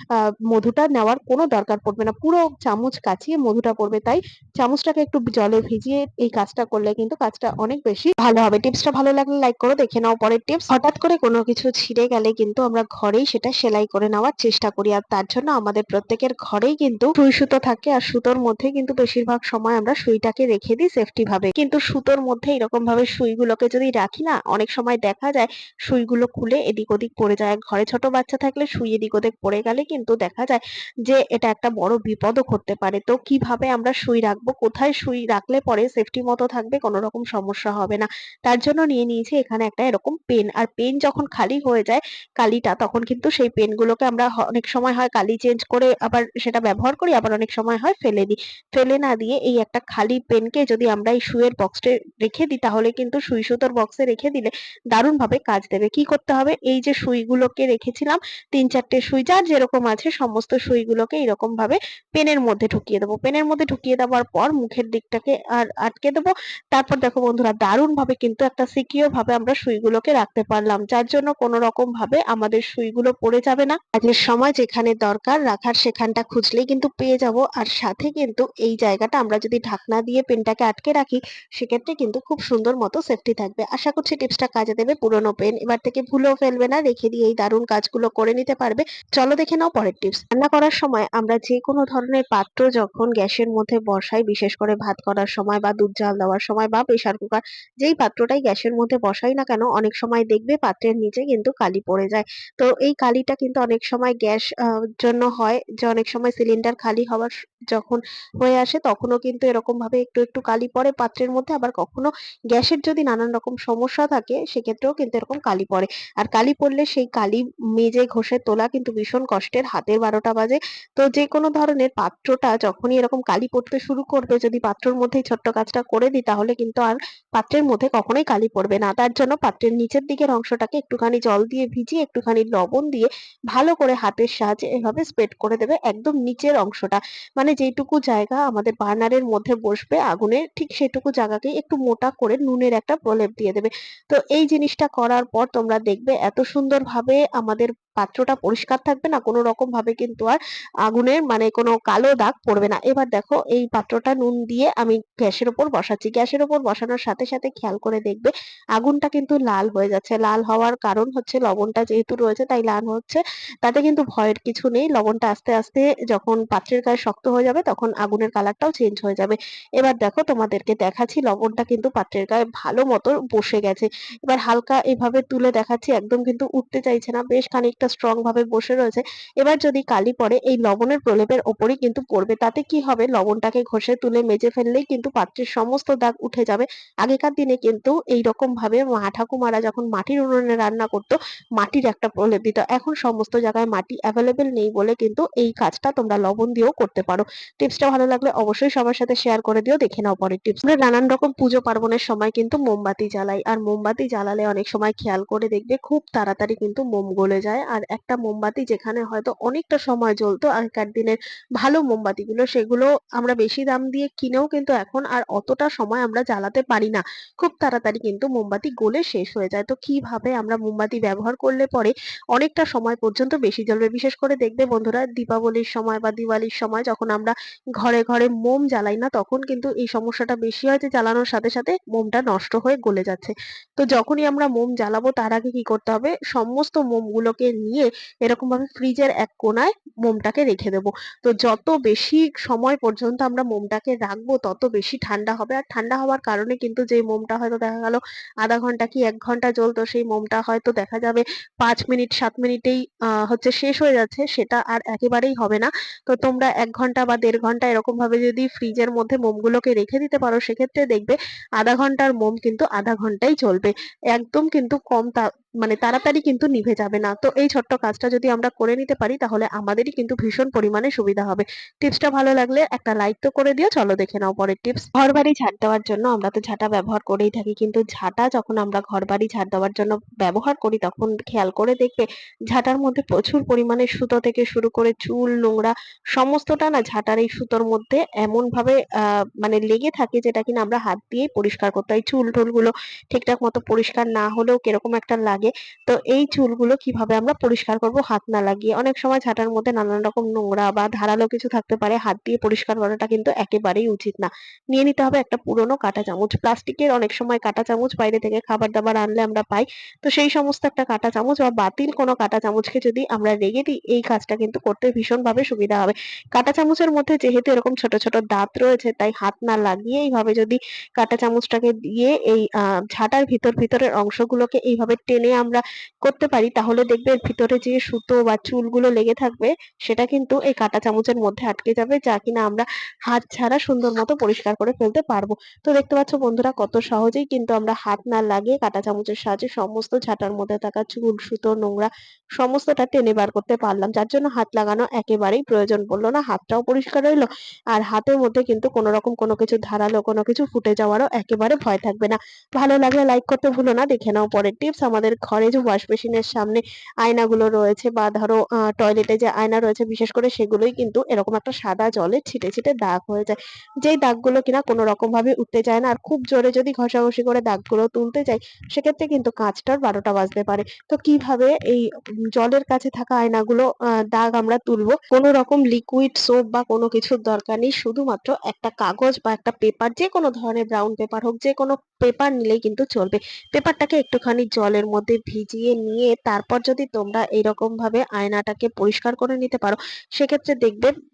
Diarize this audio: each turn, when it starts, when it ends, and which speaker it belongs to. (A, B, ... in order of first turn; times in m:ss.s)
0:00.5-1:44.5 A
1:45.0-2:30.4 A
2:30.9-4:48.8 A
4:49.4-6:30.9 A